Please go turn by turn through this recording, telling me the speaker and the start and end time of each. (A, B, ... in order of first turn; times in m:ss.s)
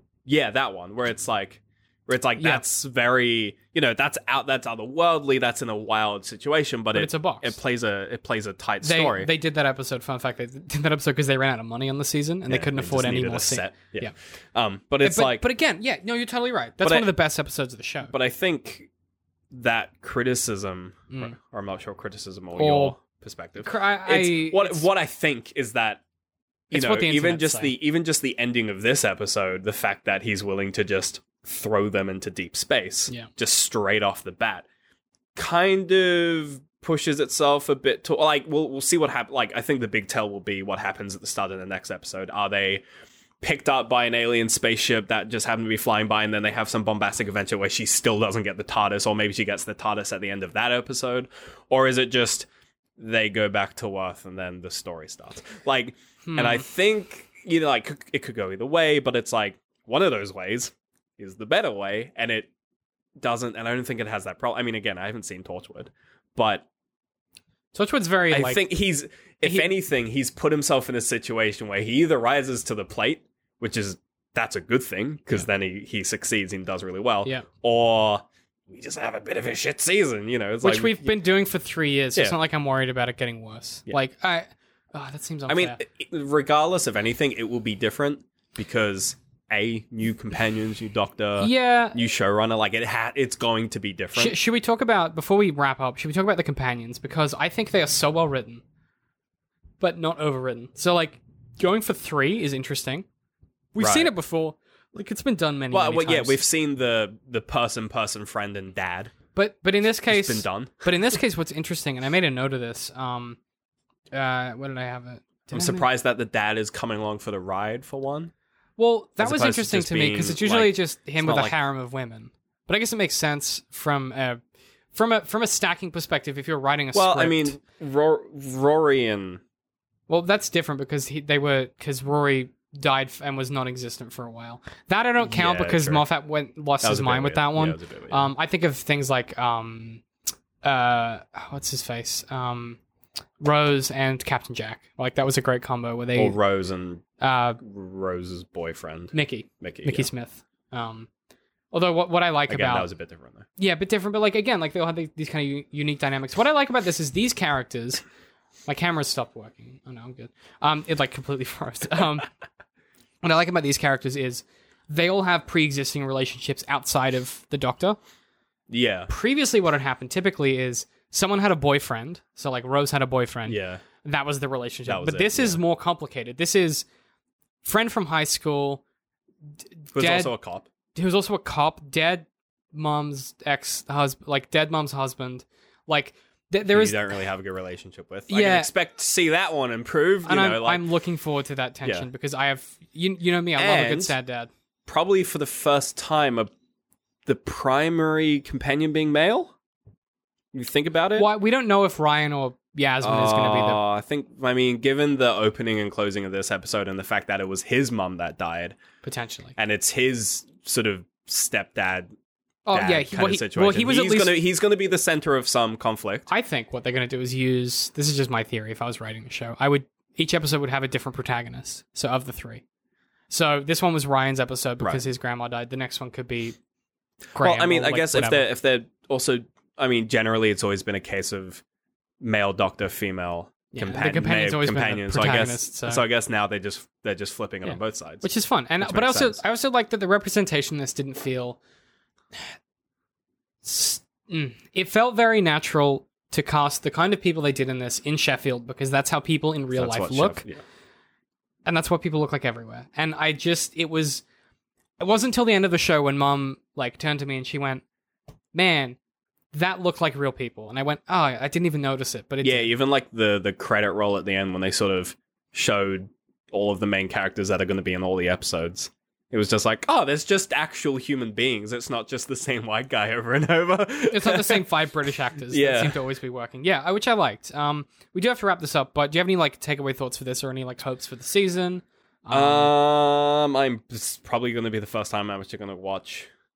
0:00.2-0:09.3 A
0:02.4-0:02.6 B
0:06.9-0:07.6 B
0:08.8-0:14.1 B
0:12.5-0:15.5 A
0:15.0-0:18.1 B
0:16.8-0:17.1 A
0:18.1-0:18.9 A
0:19.5-0:26.0 A
0:21.1-0:21.4 B
0:22.6-0:23.0 B
0:23.6-0:24.8 B
0:26.7-0:34.6 A
0:26.7-0:27.7 B
0:35.3-0:42.8 A
0:43.4-0:52.5 A
0:53.0-1:02.5 A
0:56.2-0:56.6 B
1:03.2-1:06.7 A
1:07.7-1:08.6 B
1:08.3-1:21.2 A
1:09.4-1:09.7 B
1:20.6-1:25.8 B
1:25.5-1:34.4 A
1:31.4-1:32.0 B
1:34.1-1:38.6 B
1:39.8-1:43.0 B
1:43.7-1:46.4 B
1:43.8-1:44.1 A
1:45.7-1:49.1 A
1:49.3-1:53.4 B
1:50.1-1:51.2 A
1:54.1-1:55.8 B
1:55.5-1:58.3 A
1:58.8-2:04.4 B
1:59.2-2:01.5 A
2:04.9-2:07.5 B
2:06.9-2:09.4 A
2:10.1-2:20.0 B
2:15.2-2:16.0 A
2:16.8-2:18.3 A
2:20.6-2:22.8 B
2:23.4-2:26.4 B
2:26.2-2:27.0 A
2:27.2-2:27.6 B
2:27.6-2:30.1 A
2:29.1-2:31.1 B
2:31.7-2:32.9 B
2:32.5-2:33.4 A
2:33.6-2:38.0 B
2:38.7-2:42.3 B
2:43.2-2:48.0 B
2:48.7-2:49.1 A
2:49.1-2:56.8 B
2:53.5-2:53.8 A
2:54.9-2:55.6 A
2:57.6-2:58.8 B
2:59.9-3:00.3 B
2:59.9-3:00.7 A
3:00.9-3:07.1 B
3:06.7-3:10.9 A
3:08.3-3:08.7 B
3:10.2-3:14.5 B
3:13.6-3:14.2 A
3:14.8-3:16.5 A
3:17.2-3:19.5 A
3:20.5-3:21.3 A
3:21.2-3:23.8 B
3:23.0-3:28.8 A
3:29.0-3:29.5 B
3:29.6-3:32.1 A
3:32.6-3:34.4 B
3:32.7-3:36.3 A
3:36.3-3:42.6 B
3:43.3-3:46.6 B
3:44.8-3:45.0 A
3:47.3-3:48.5 B
3:47.4-3:51.6 A
3:52.2-3:58.2 A
3:53.7-3:56.0 B
3:57.6-4:01.6 B
3:58.8-3:59.4 A
4:03.6-4:10.4 B
4:09.7-4:10.6 A
4:11.6-4:14.2 B
4:15.0-4:17.8 B
4:18.5-4:19.0 B
4:19.5-4:22.7 B
4:22.4-4:34.6 A
4:34.1-4:42.7 B
4:35.5-4:36.0 A
4:42.3-4:46.3 A